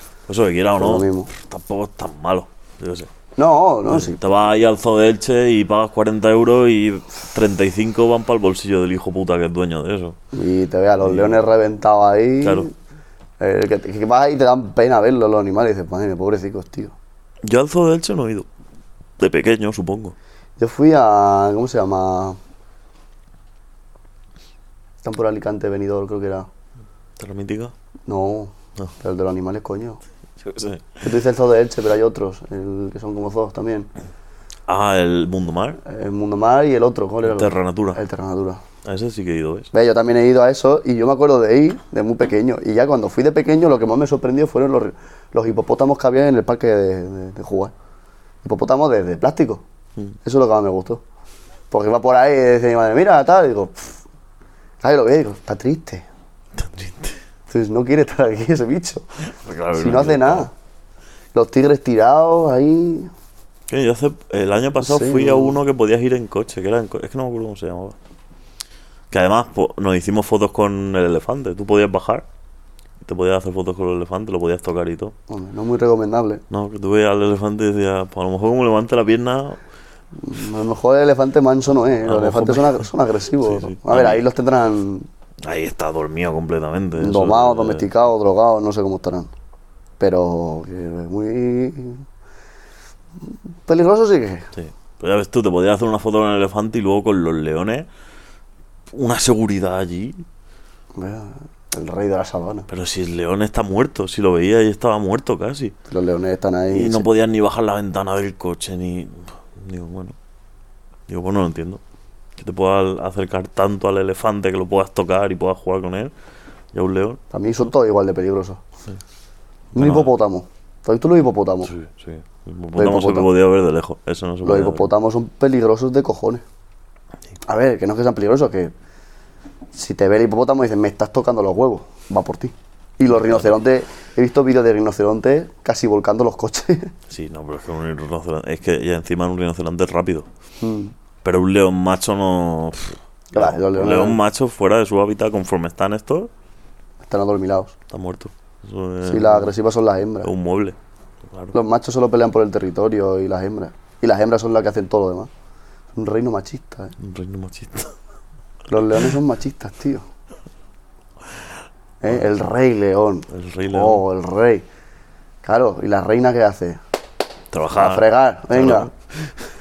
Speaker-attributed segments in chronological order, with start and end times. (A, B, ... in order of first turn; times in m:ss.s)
0:00.3-0:03.1 A
0:00.8-0:01.3 B
0:03.4-0:04.2 B
0:03.9-0:10.2 A
0:10.3-0:12.7 B
0:11.0-0:11.4 A
0:12.4-0:12.7 A
0:13.4-0:17.0 B
0:17.4-0:18.5 A
0:19.2-0:20.2 A
0:20.6-0:22.4 B
0:25.0-0:26.5 B
0:27.2-0:27.7 A
0:28.1-0:30.0 B
0:30.4-0:31.0 A
0:31.0-0:33.9 B
0:34.7-0:35.8 A
0:35.8-0:38.6 B
0:37.2-0:38.0 A
0:38.8-0:39.7 A
0:39.7-0:47.7 B
0:48.4-0:49.6 B
0:50.2-0:51.0 B
0:51.7-0:54.0 B
0:54.8-0:56.0 B
0:56.6-0:57.2 A
0:57.5-0:59.0 B
0:59.4-1:00.5 A
0:59.7-1:00.5 B
1:01.3-1:03.1 B
1:03.7-1:08.0 A
1:04.8-1:05.6 B
1:09.1-1:12.2 A
1:13.0-1:15.1 A
1:15.3-1:16.4 B
1:16.5-1:19.6 A
1:20.2-1:25.1 B
1:22.0-1:22.9 A
1:23.4-1:24.2 A
1:25.4-1:27.9 A
1:27.0-1:29.3 B
1:30.0-1:32.0 B
1:33.7-1:34.5 B
1:34.6-1:37.9 A
1:38.9-1:40.2 A
1:41.0-1:42.7 B
1:42.7-1:45.8 A
1:45.9-1:47.1 B
1:46.7-1:50.2 A
1:51.1-1:51.8 A
1:52.4-1:56.1 A
1:56.7-1:57.2 A
1:57.3-1:58.6 B
1:59.7-2:00.1 A
1:59.8-2:01.7 B
2:01.6-2:04.9 A
2:02.8-2:03.3 B
2:04.4-2:06.4 B
2:07.5-2:08.7 B
2:09.7-2:16.9 B
2:13.2-2:13.5 A
2:17.1-2:20.3 A
2:20.6-2:20.9 B
2:21.2-2:26.3 A
2:23.3-2:24.2 B
2:27.0-2:27.7 B
2:27.9-2:29.5 A
2:29.1-2:30.3 B
2:30.2-2:30.8 A
2:31.5-2:35.3 B
2:35.9-2:37.0 B
2:37.0-2:38.0 A
2:38.7-2:40.1 B
2:42.0-2:44.6 B
2:43.3-2:44.0 A
2:45.4-2:46.8 B
2:47.5-2:49.3 A
2:47.8-2:48.9 B